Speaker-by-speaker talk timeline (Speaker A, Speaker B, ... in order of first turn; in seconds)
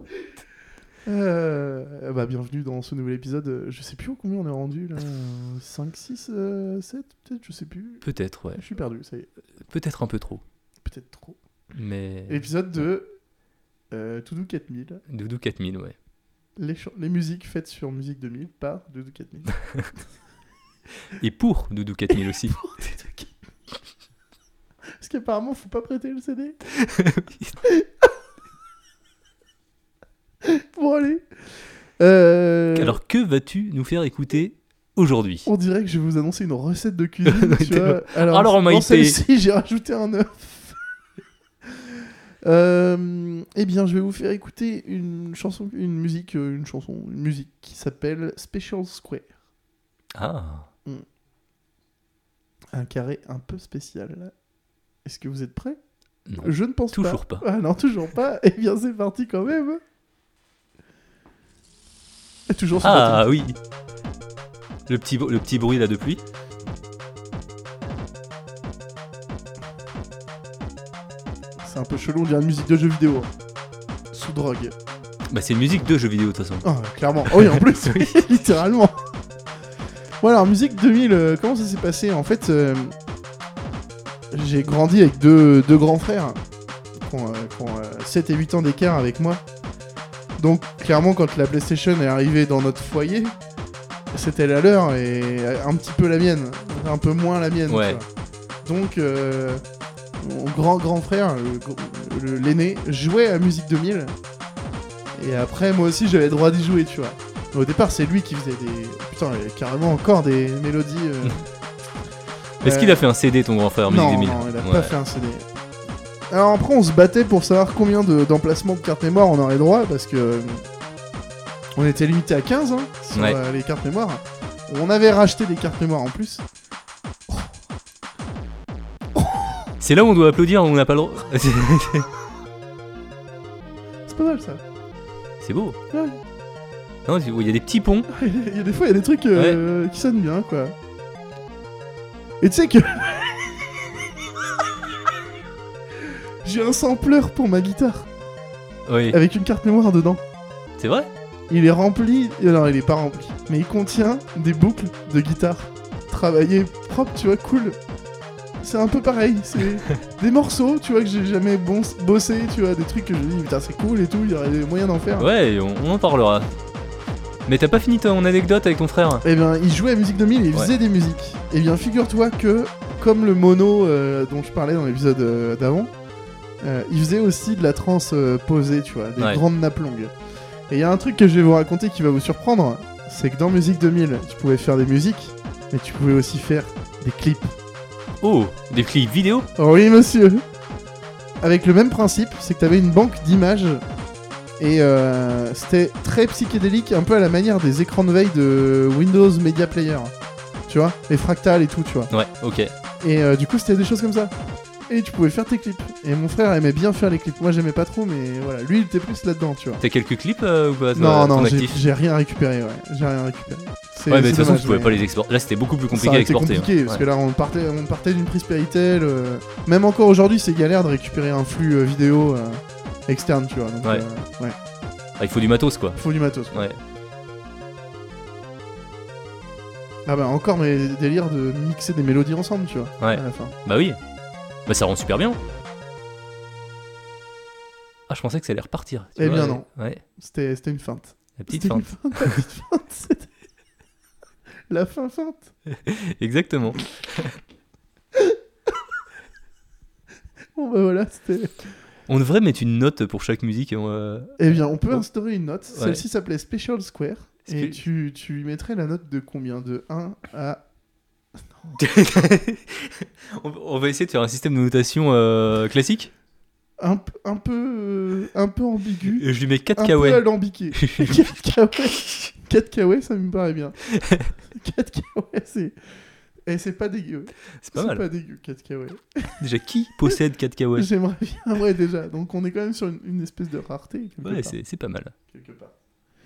Speaker A: 1.1-9.3, 10.8-11.4, 12.3-13.1, 13.9-15.0, 16.6-19.6, 22.2-23.3, 25.0-26.6, 27.7-28.1, 30.5-33.0, 35.5-40.8, 42.4-49.3, 52.7-54.3, 55.0-55.8, 56.4-59.8, 62.5-63.4, 71.6-73.3, 74.1-74.7, 76.6-79.0, 80.2-82.9, 84.3-86.4, 87.0-89.4, 90.4-93.3, 94.1-98.1, 98.7-99.6, 100.2-104.2, 105.2-111.5, 112.6-113.1, 113.9-115.5, 116.3-120.7, 121.8-126.5, 129.2-129.6, 134.1-134.6, 135.9-136.2, 138.1-140.8, 142.4-143.3, 146.4-148.1, 149.1-150.2, 151.5-157.8, 158.6-165.3, 169.2-175.9, 176.6-180.1, 180.7-187.5, 189.6-190.4, 191.4-193.8, 194.6-200.1, 200.7-202.1, 203.0-204.3, 204.9-209.8, 210.9-215.0, 215.9-224.6, 225.9-226.7, 230.1-233.6, 239.2-243.3, 244.7-245.5, 250.6-251.7, 254.4-260.6, 266.8-269.2, 269.8-273.8, 274.5-275.8, 276.5-279.3, 280.8-284.6, 285.3-285.7
Speaker B: 8.0-8.6, 9.6-10.4, 11.7-12.4, 15.1-15.9, 21.2-22.7, 26.8-27.5, 32.8-35.5, 37.3-39.2, 50.1-50.7, 56.3-57.4, 62.8-63.6, 64.9-66.2, 75.3-76.7, 77.3-78.2, 97.7-98.0, 112.6-115.0, 123.1-123.4, 129.8-132.1, 135.4-135.8, 137.1-138.1, 148.9-149.2, 150.8-151.1, 165.2-166.5, 167.5-169.2, 188.2-189.5, 202.1-202.7, 209.8-211.8, 214.1-217.1, 225.2-226.0, 226.5-226.8, 233.0-234.0, 234.7-235.4, 238.1-240.0, 241.4-242.4, 245.7-247.4, 252.1-254.4, 255.7-256.0, 257.5-257.8, 261.7-266.1, 269.2-271.3, 277.6-278.0, 279.4-280.9, 284.2-285.1